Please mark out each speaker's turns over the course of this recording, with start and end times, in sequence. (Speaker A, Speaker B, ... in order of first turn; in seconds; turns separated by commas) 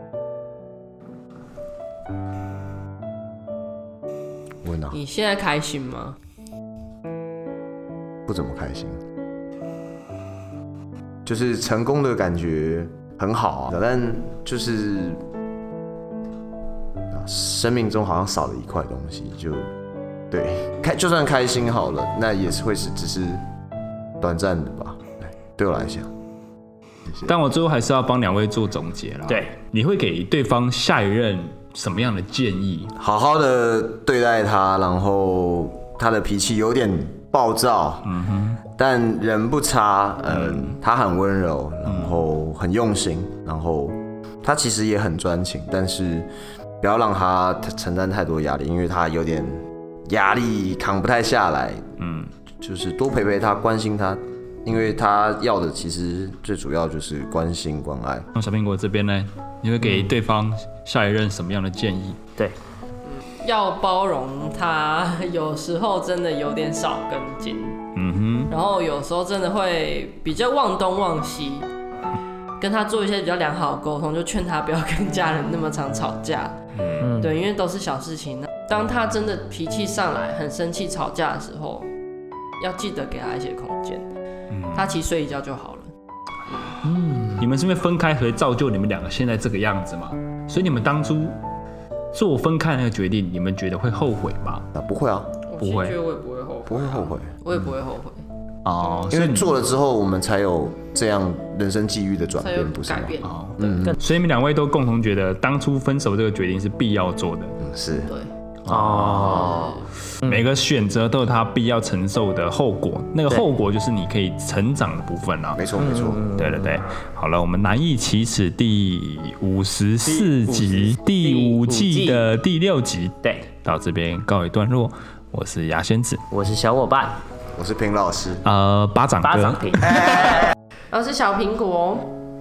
Speaker A: 4.6-5.0, Speaker B: 4.9-6.2, Speaker A: 8.3-9.0, Speaker A: 11.2-15.2, Speaker A: 17.1-19.7, Speaker A: 20.3-23.4, Speaker A: 24.2-26.1, Speaker C: 27.2-32.9, Speaker A: 33.0-38.1, Speaker C: 38.0-38.6, Speaker A: 38.8-46.3, Speaker C: 40.3-40.8, Speaker C: 41.9-42.2, Speaker A: 46.8-51.8, Speaker C: 52.0-52.3, Speaker A: 52.6-58.3, Speaker C: 58.3-62.2, Speaker B: 63.1-67.8, Speaker C: 67.9-68.5, Speaker B: 68.5-71.7, Speaker B: 72.6-76.5, Speaker C: 76.8-77.1, Speaker D: 77.0-77.3, Speaker B: 77.1-81.9, Speaker B: 82.6-84.0, Speaker C: 84.5-84.9, Speaker B: 84.7-85.9, Speaker D: 86.9-87.4, Speaker C: 87.2-91.3, Speaker C: 92.1-94.7, Speaker A: 94.7-95.3, Speaker B: 95.5-98.2, Speaker C: 95.6-95.9, Speaker A: 96.7-97.3, Speaker C: 98.7-99.6, Speaker A: 99.1-104.0, Speaker B: 102.4-103.4, Speaker C: 103.2-107.6, Speaker A: 107.6-108.1, Speaker C: 108.6-109.7, Speaker D: 108.7-110.4, Speaker B: 109.1-109.8, Speaker C: 110.2-115.6, Speaker A: 115.5-116.2, Speaker D: 115.8-116.7, Speaker C: 116.3-126.2, Speaker D: 120.1-122.2, Speaker D: 126.3-127.2, Speaker A: 127.5-128.4, Speaker C: 128.4-130.3, Speaker D: 129.2-130.2, Speaker B: 130.9-132.1